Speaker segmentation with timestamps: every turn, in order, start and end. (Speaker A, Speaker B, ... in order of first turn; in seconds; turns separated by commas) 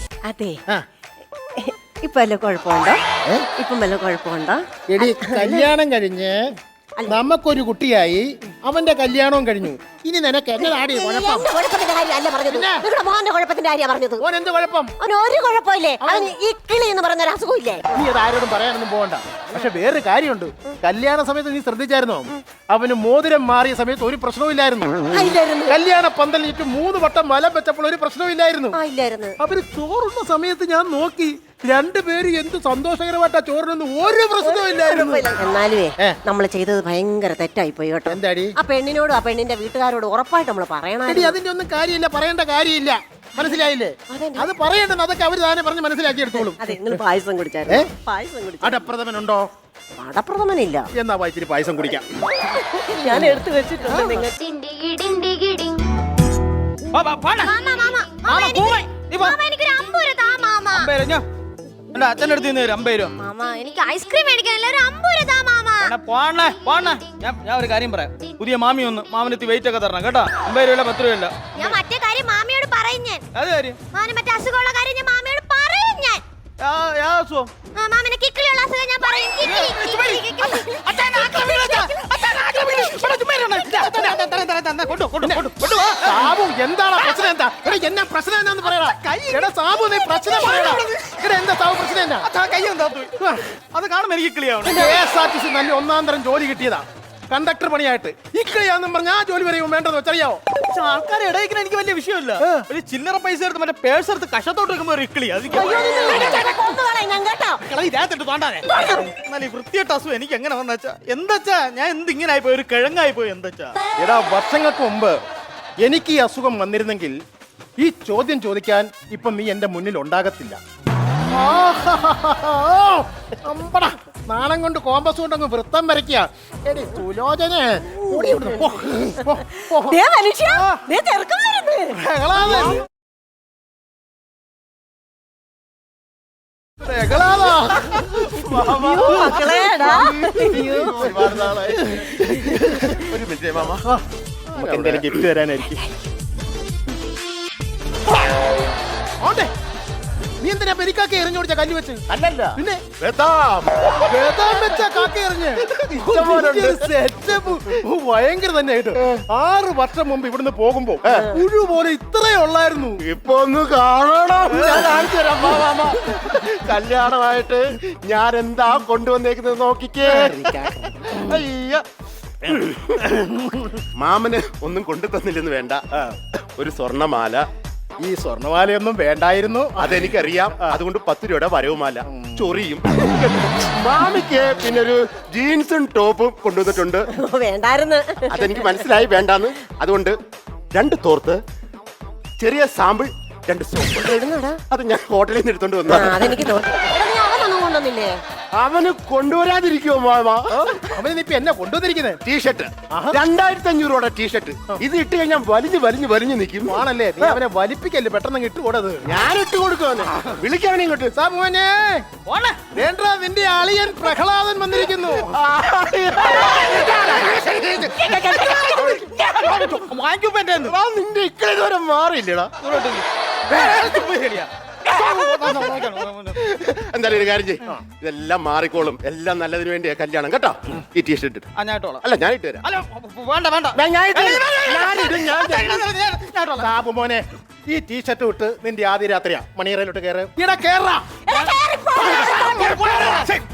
Speaker A: 0.2-0.6, Speaker A: 1.6-3.0, Speaker A: 3.6-5.7, Speaker B: 4.9-6.5, Speaker B: 7.1-11.5, Speaker A: 10.6-14.2, Speaker B: 12.5-12.8, Speaker B: 14.2-14.9, Speaker A: 15.0-17.9, Speaker B: 16.0-16.3, Speaker B: 17.9-24.9, Speaker A: 25.1-25.8, Speaker B: 25.7-28.8, Speaker A: 28.7-29.4, Speaker B: 29.4-35.3, Speaker A: 34.4-41.4, Speaker B: 38.1-38.5, Speaker B: 41.1-46.6, Speaker A: 43.4-44.5, Speaker A: 46.6-48.9, Speaker B: 48.6-49.5, Speaker A: 50.0-50.9, Speaker B: 50.9-52.0, Speaker A: 52.4-54.5, Speaker B: 53.1-54.2, Speaker C: 54.7-55.6, Speaker D: 56.9-57.7, Speaker C: 57.5-60.8, Speaker D: 58.2-59.4, Speaker D: 60.7-61.2, Speaker D: 61.9-63.1, Speaker C: 63.5-65.9, Speaker D: 65.8-71.8, Speaker C: 71.6-73.2, Speaker D: 73.3-73.8, Speaker C: 74.0-76.2, Speaker D: 76.6-77.5, Speaker C: 77.8-80.6, Speaker D: 79.4-86.3, Speaker C: 81.1-81.7, Speaker B: 86.0-92.3, Speaker D: 88.6-91.1, Speaker D: 92.2-95.0, Speaker B: 93.2-93.5, Speaker B: 94.7-100.4, Speaker D: 100.6-106.5, Speaker B: 102.4-102.7, Speaker A: 105.5-107.6, Speaker D: 107.6-113.8, Speaker B: 114.0-115.2, Speaker B: 115.8-117.2, Speaker B: 117.8-120.6, Speaker B: 121.3-130.8, Speaker A: 127.9-128.8, Speaker A: 129.7-132.0, Speaker B: 131.9-132.8, Speaker B: 136.8-138.0, Speaker E: 138.2-143.8, Speaker A: 138.5-141.1, Speaker B: 139.0-139.7, Speaker B: 144.5-145.9, Speaker E: 144.6-145.1, Speaker B: 149.2-149.5, Speaker B: 150.4-152.0, Speaker E: 152.1-155.0, Speaker B: 152.6-152.8, Speaker B: 154.0-163.0, Speaker E: 155.6-156.9, Speaker E: 158.9-159.2, Speaker E: 161.1-161.3, Speaker E: 163.0-171.8, Speaker B: 164.5-165.0, Speaker B: 170.1-171.3, Speaker E: 172.4-173.0, Speaker B: 173.0-173.8, Speaker E: 173.9-175.8, Speaker E: 176.6-177.5, Speaker B: 178.0-180.1, Speaker E: 179.8-187.1, Speaker B: 182.1-182.4, Speaker A: 187.1-188.9, Speaker E: 188.3-190.2, Speaker E: 190.7-191.4, Speaker E: 192.4-196.5, Speaker A: 193.9-194.6, Speaker A: 195.9-198.2, Speaker E: 198.6-200.8, Speaker B: 200.5-202.2, Speaker E: 202.2-207.4, Speaker B: 202.9-203.2, Speaker B: 206.7-209.1, Speaker E: 209.1-211.1, Speaker B: 211.1-212.0, Speaker D: 212.2-212.7, Speaker B: 212.7-215.3, Speaker E: 215.1-217.3, Speaker B: 216.7-218.9, Speaker D: 218.0-220.8, Speaker E: 218.7-219.1, Speaker E: 220.6-222.5, Speaker D: 222.6-226.4, Speaker E: 226.3-231.5, Speaker D: 231.6-232.0, Speaker E: 232.0-232.6, Speaker D: 232.6-236.7, Speaker E: 233.8-235.7, Speaker B: 234.7-235.5, Speaker B: 236.6-241.1, Speaker A: 241.3-242.7, Speaker B: 242.0-243.4